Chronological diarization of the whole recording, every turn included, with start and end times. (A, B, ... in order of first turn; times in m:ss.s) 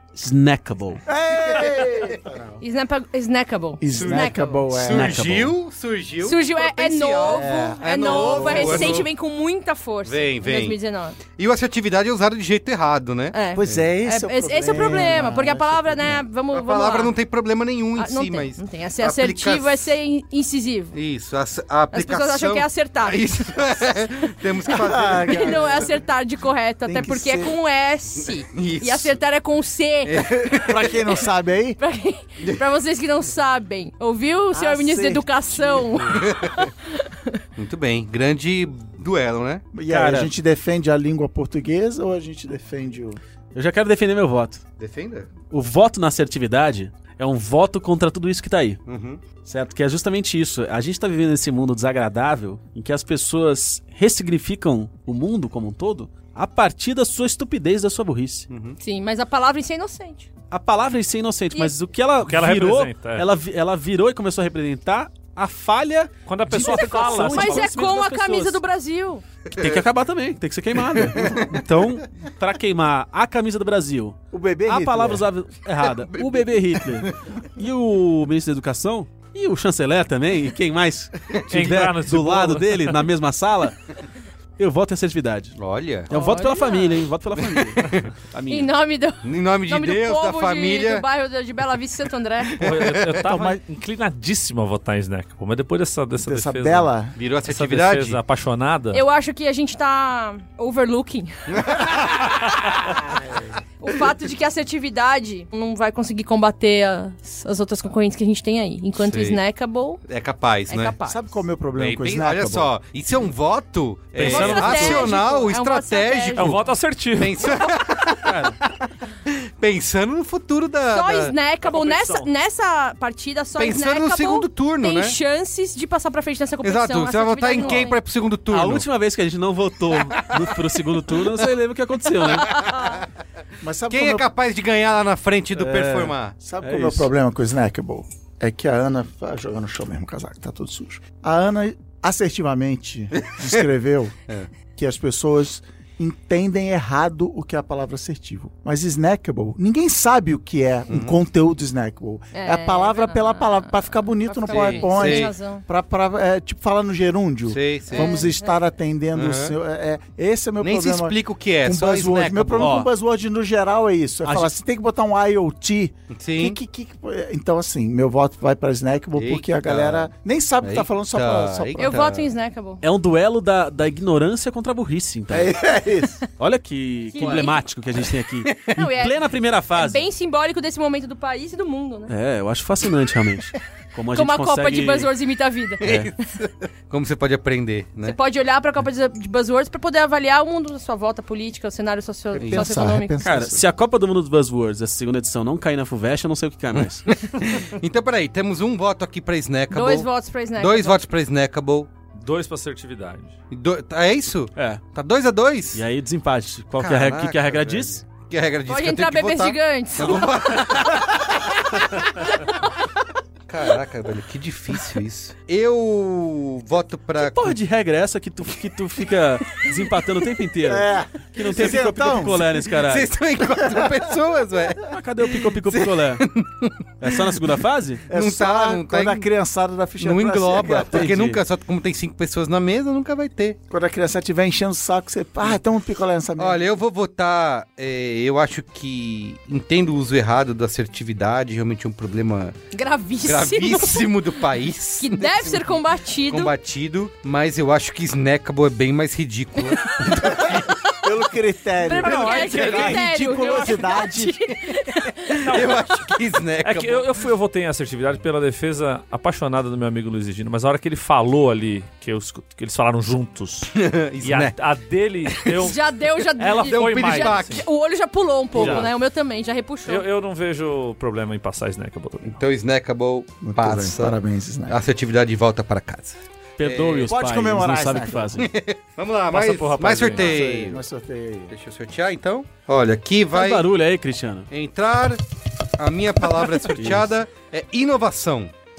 0:00.1-0:01.0 A
0:01.0-0:02.6 B
0:01.5-0:02.2 C
0:02.6-0:04.6 D
0:03.8-0:05.2 B
0:03.9-0:09.1 C
0:04.9-0:05.6 A
0:06.2-0:11.2 D
0:07.3-0:09.1 B
0:10.0-0:13.9 C
0:13.3-0:17.1 D
0:13.5-0:16.2 B
0:16.5-0:19.8 C
0:18.0-0:21.0 D
0:20.9-0:25.8 C
0:21.9-0:24.1 D
0:24.7-0:26.0 B
0:25.0-0:30.4 D
0:26.8-0:27.6 B
0:28.2-0:29.2 C
0:30.0-0:30.9 C
0:30.6-0:31.8 B
0:31.8-0:37.4 D
0:34.5-0:36.3 B
0:36.1-0:36.6 C
0:37.6-0:39.7 C
0:39.7-0:43.2 B
0:39.9-0:40.3 A
0:43.5-0:44.6 A
0:44.8-0:45.3 C
0:45.5-0:48.8 A
0:48.8-0:49.2 C
0:49.4-0:58.5 A
0:58.5-0:58.8 C
0:58.8-1:00.3 D
1:00.5-1:08.6 A
1:02.2-1:03.3 E
1:06.2-1:07.8 E
1:06.6-1:09.2 D
1:09.5-1:09.8 C
1:09.6-1:23.8 A
1:10.9-1:11.4 C
1:14.3-1:15.3 B
1:16.1-1:16.4 C
1:21.5-1:23.0 E
1:24.6-1:25.6 A
1:25.6-1:26.1 C
1:26.1-1:27.0 D
1:26.1-1:28.7 A
1:27.4-1:28.1 C
1:28.5-1:32.6 D
1:29.2-1:31.0 C
1:32.6-1:36.9 E
1:32.6-1:33.2 C
1:33.3-1:33.6 B
1:36.2-1:37.1 B
1:37.2-1:38.2 C
1:37.4-1:39.0 E
1:38.9-1:41.8 D
1:41.5-1:42.6 C
1:43.2-1:43.4 B
1:43.8-1:50.0 D
1:49.0-1:49.4 C
1:50.0-1:51.0 C
1:50.7-1:51.2 D
1:51.0-1:52.7 B
1:51.8-1:58.6 C
1:54.2-1:55.0 E
1:54.2-1:56.6 D
1:56.4-1:57.6 E
1:58.2-1:58.6 A
1:59.2-2:01.3 C
2:00.9-2:08.0 D
2:01.6-2:02.3 E
2:03.6-2:05.2 C
2:06.6-2:08.9 C
2:08.5-2:12.7 A
2:12.2-2:12.8 C
2:12.4-2:13.0 D
2:13.6-2:14.3 B
2:13.9-2:16.4 C
2:15.5-2:17.1 A
2:16.4-2:24.2 B
2:23.2-2:23.6 C
2:24.8-2:52.0 B
2:30.9-2:31.2 C
2:32.3-2:35.6 D
2:34.5-2:35.3 C
2:37.5-2:38.2 C
2:37.9-2:38.5 D
2:39.1-2:39.5 C
2:40.6-2:42.8 C
2:42.6-2:42.9 A
2:44.2-2:44.5 A
2:46.1-2:46.6 C
2:49.2-2:50.1 C
2:50.6-2:52.3 C
2:51.8-2:52.8 D
2:52.8-2:55.5 A
2:55.3-2:56.2 B
2:56.4-3:00.0 A
2:57.1-2:57.6 D
2:58.7-3:02.1 D
3:02.1-3:05.1 A
3:04.1-3:05.8 D
3:05.8-3:08.2 C
3:05.8-3:06.1 A
3:08.0-3:13.2 D
3:12.3-3:13.7 B
3:12.4-3:12.7 C
3:13.2-3:17.0 A
3:16.7-3:21.9 C
3:19.7-3:21.0 D
3:22.1-3:23.3 E
3:23.5-3:25.8 C
3:24.6-3:24.8 A
3:25.7-3:28.0 A
3:26.8-3:31.6 C
3:28.7-3:30.3 D
3:33.5-3:37.6 C
3:37.2-3:43.1 A
3:40.6-3:42.5 B
3:42.5-3:47.4 C
3:43.7-3:43.9 B
3:44.9-3:46.3 A
3:47.0-3:48.0 A
3:48.1-3:51.1 B
3:48.1-3:49.3 C
3:50.0-3:53.6 C
3:50.9-3:51.4 A
3:53.7-3:56.6 B
3:56.4-4:02.6 C
4:02.7-4:04.3 D
4:03.2-4:10.7 C
4:05.0-4:06.5 D
4:09.8-4:10.3 D
4:11.0-4:14.4 B
4:11.8-4:15.6 D
4:11.9-4:13.9 E
4:15.4-4:17.2 C
4:15.4-4:15.8 E
4:16.6-4:25.8 E
4:23.7-4:24.6 C
4:25.3-4:25.6 C
4:25.6-4:30.0 D
4:26.3-4:27.6 E
4:26.6-4:27.7 C
4:28.5-4:28.9 C
4:28.5-4:28.9 E
4:29.9-4:32.4 E
4:32.2-4:37.1 C
4:33.4-4:34.8 B
4:36.6-4:38.5 A
4:37.1-4:38.4 B
4:38.4-4:40.8 C
4:39.3-4:40.4 E
4:40.1-4:41.5 B
4:41.5-4:43.6 C
4:43.3-4:44.5 A
4:44.5-4:45.2 C
4:45.8-4:48.5 C
4:46.7-4:47.1 A